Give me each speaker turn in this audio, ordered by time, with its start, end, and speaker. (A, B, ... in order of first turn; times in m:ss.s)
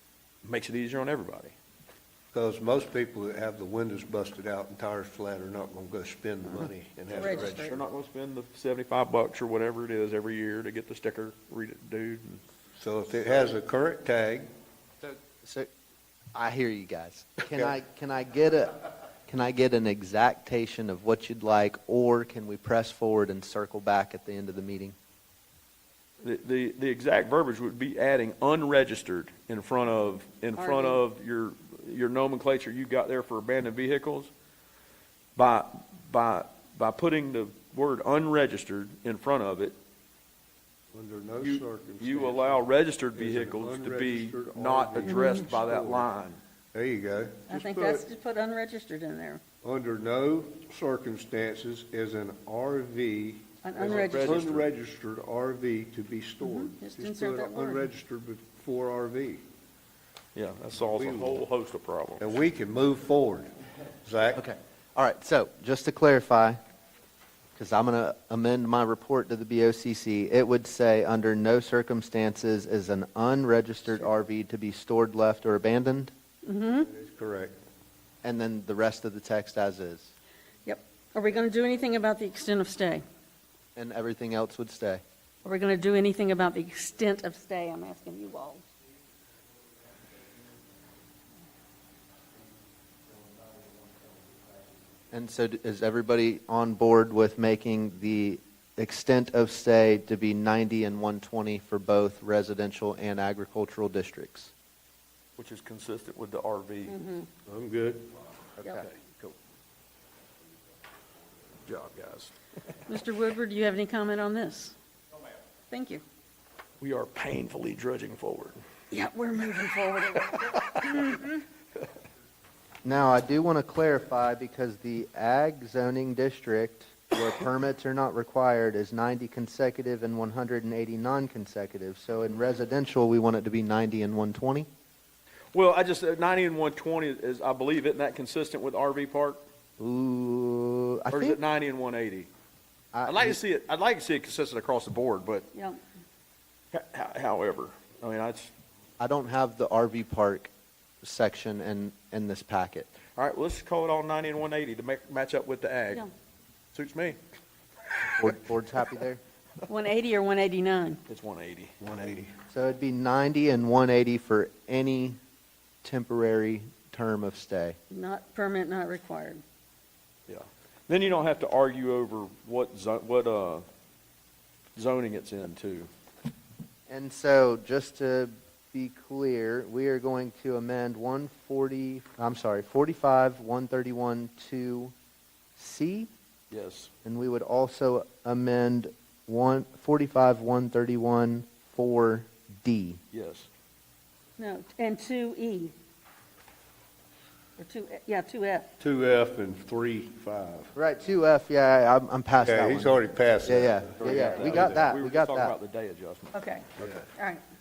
0:00.4-0:01.6 A
0:02.3-0:07.6 B
0:07.1-0:07.8 C
0:07.4-0:12.4 A
0:12.8-0:14.5 B
0:15.0-0:15.7 D
0:16.3-0:25.0 D
0:26.2-0:34.3 A
0:30.6-0:31.0 C
0:35.4-0:39.8 A
0:40.9-0:42.6 B
0:41.4-0:46.4 A
0:43.1-0:46.1 B
0:45.1-0:45.3 C
0:46.7-0:48.1 B
0:47.5-0:49.4 C
0:49.6-0:59.4 B
0:53.6-0:54.4 C
0:53.8-0:54.7 A
0:56.4-0:57.9 C
1:00.4-1:02.3 A
1:01.0-1:01.4 B
1:02.2-1:03.5 B
1:04.0-1:04.4 B
1:04.4-1:06.6 D
1:07.6-1:16.1 D
1:16.4-1:16.9 C
1:16.9-1:17.6 B
1:18.2-1:20.1 D
1:20.7-1:23.0 C
1:23.8-1:25.0 D
1:25.4-1:28.6 C
1:35.1-1:44.5 D
1:45.4-1:47.0 A
1:46.9-1:47.3 C
1:47.5-1:48.1 B
1:48.6-1:48.9 D
1:51.7-1:52.3 A
1:52.9-1:54.8 C
1:55.7-1:56.0 C
1:56.8-1:58.6 A
1:58.9-2:01.4 C
2:00.5-2:01.0 A
2:02.8-2:14.7 D
2:15.5-2:19.4 A
2:19.8-2:21.4 D
2:21.1-2:22.3 A
2:22.9-2:23.4 D
2:23.0-2:25.5 A
2:25.5-2:25.8 C
2:26.7-2:28.5 A
2:29.0-2:30.5 D
2:31.0-2:32.9 D
2:33.2-2:36.1 A
2:36.7-2:37.2 A
2:38.2-2:39.2 D
2:39.7-2:41.0 C
2:41.1-2:41.8 A
2:41.8-2:42.3 B
2:42.5-2:45.2 D
2:45.8-2:47.8 D
2:47.9-2:49.4 C
2:50.3-2:53.6 A
2:54.8-2:55.9 A
2:56.9-3:04.9 D
3:05.6-3:06.1 D
3:06.5-3:06.9 A
3:07.0-3:13.0 D
3:13.1-3:13.5 A
3:14.4-3:15.7 C
3:17.6-3:18.7 C
3:18.8-3:20.7 B
3:20.8-3:25.6 D
3:22.4-3:24.8 B
3:24.0-3:26.9 A
3:26.3-3:27.4 C
3:26.8-3:27.0 B